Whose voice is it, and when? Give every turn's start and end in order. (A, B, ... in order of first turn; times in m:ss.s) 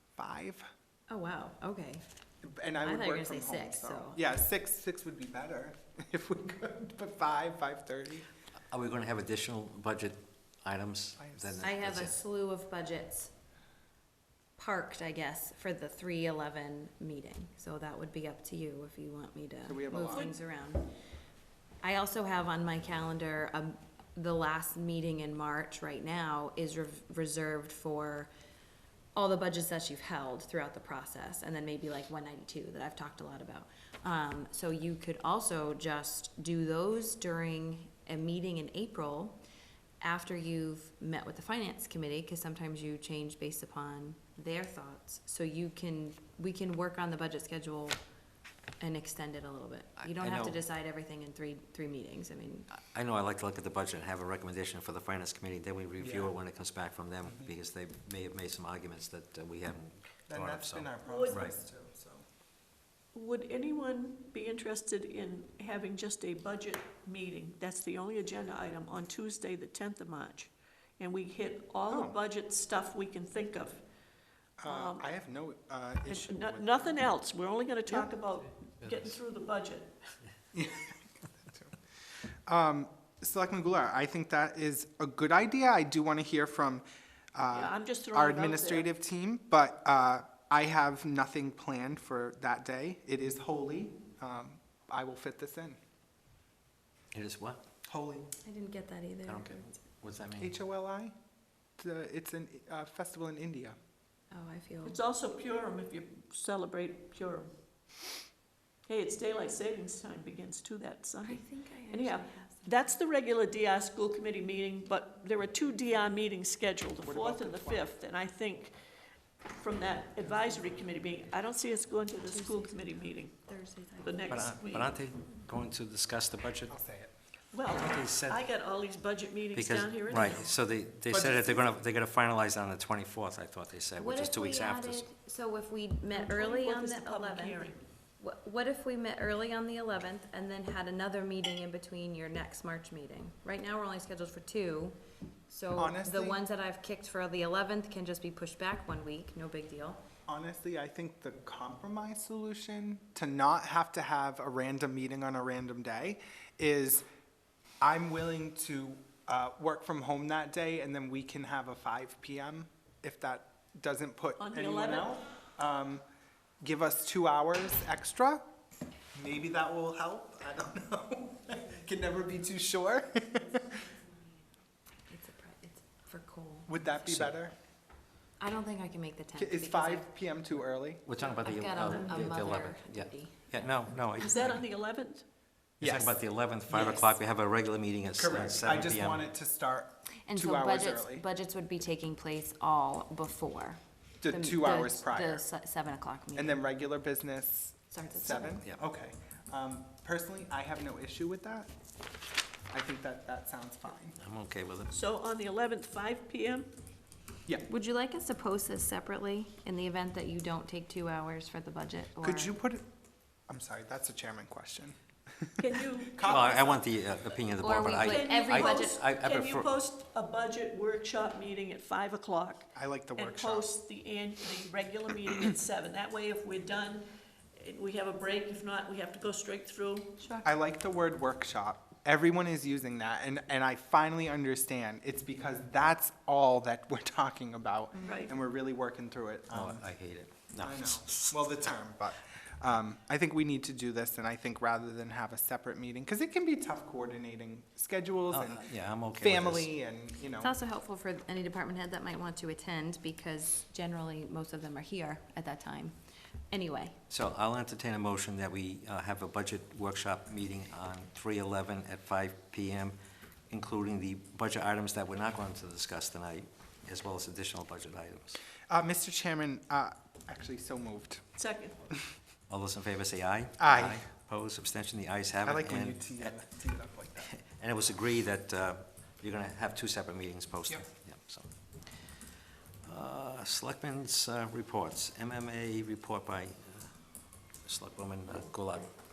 0:00.2-0:00.6 A
0:01.1-0:02.0 B
0:02.4-0:08.3 A
0:02.8-0:04.2 B
0:08.7-0:12.2 C
0:11.2-0:11.7 A
0:11.6-0:13.3 B
0:14.6-0:20.9 B
0:19.6-0:20.3 A
0:20.1-0:20.4 D
0:21.8-0:28.3 B
0:29.1-0:39.4 B
0:40.0-0:48.0 B
0:48.8-0:52.7 B
0:50.0-0:50.6 C
0:52.7-1:01.5 C
0:56.0-0:56.3 A
0:57.2-0:57.5 A
1:00.3-1:02.2 A
1:01.0-1:01.4 D
1:03.1-1:13.8 D
1:11.9-1:12.2 A
1:14.6-1:17.0 A
1:14.6-1:15.1 D
1:16.0-1:19.9 D
1:20.5-1:21.8 A
1:22.5-1:26.8 A
1:27.3-1:35.8 A
1:27.5-1:28.9 D
1:37.1-1:37.6 C
1:37.9-1:38.3 A
1:38.4-1:39.8 B
1:39.2-1:40.6 C
1:40.4-1:41.1 A
1:41.8-1:43.8 A
1:44.3-1:45.0 B
1:44.8-1:47.5 D
1:48.8-1:58.7 D
1:51.2-1:52.8 B
1:57.0-1:57.8 A
1:59.6-2:03.4 D
2:02.2-2:04.5 B
2:04.0-2:05.0 D
2:04.3-2:06.7 C
2:06.7-2:07.1 A
2:07.5-2:10.5 D
2:07.7-2:08.4 C
2:09.5-2:15.0 C
2:11.1-2:11.7 A
2:14.0-2:17.6 B
2:16.1-2:17.8 D
2:18.2-2:25.0 B
2:25.5-2:30.0 B
2:25.7-2:26.4 A
2:30.3-2:37.0 A
2:37.8-2:46.0 A
2:44.4-2:45.1 D
2:46.6-2:48.4 A
2:49.1-2:53.8 A
2:55.1-2:56.8 B
2:56.7-2:57.5 A
2:57.0-2:57.3 C
2:58.4-3:00.0 B
2:59.4-3:01.0 A
3:01.0-3:04.6 C
3:01.2-3:03.7 B
3:01.8-3:02.4 D
3:04.2-3:05.2 D
3:05.8-3:06.2 A
3:05.8-3:09.3 C
3:06.7-3:07.1 A
3:08.2-3:11.3 A
3:10.3-3:16.6 B
3:14.2-3:15.4 A
3:16.3-3:21.7 A
3:17.9-3:18.6 B
3:22.7-3:24.2 A
3:24.2-3:24.9 C
3:24.9-3:26.7 D
3:27.7-3:32.5 B
3:32.2-3:32.8 A
3:33.5-3:35.5 A
3:35.6-3:36.7 D
3:36.1-3:36.8 A
3:36.2-3:39.7 C
3:37.6-3:39.0 B
3:38.0-3:50.3 D
3:42.7-3:43.7 A
3:50.4-3:59.9 A
3:57.9-3:58.3 B
3:58.0-3:58.3 D
3:59.5-4:01.3 C
4:00.6-4:10.5 A
4:08.3-4:09.7 C
4:10.4-4:16.0 B
4:16.5-4:17.0 B
4:17.1-4:23.0 C
4:23.5-4:28.4 C
4:28.7-4:31.2 A
4:31.4-4:31.8 D
4:32.5-4:36.4 C
4:33.6-4:34.0 A
4:35.4-4:37.3 A
4:37.2-4:41.5 C
4:42.8-4:46.9 C
4:47.6-4:48.9 C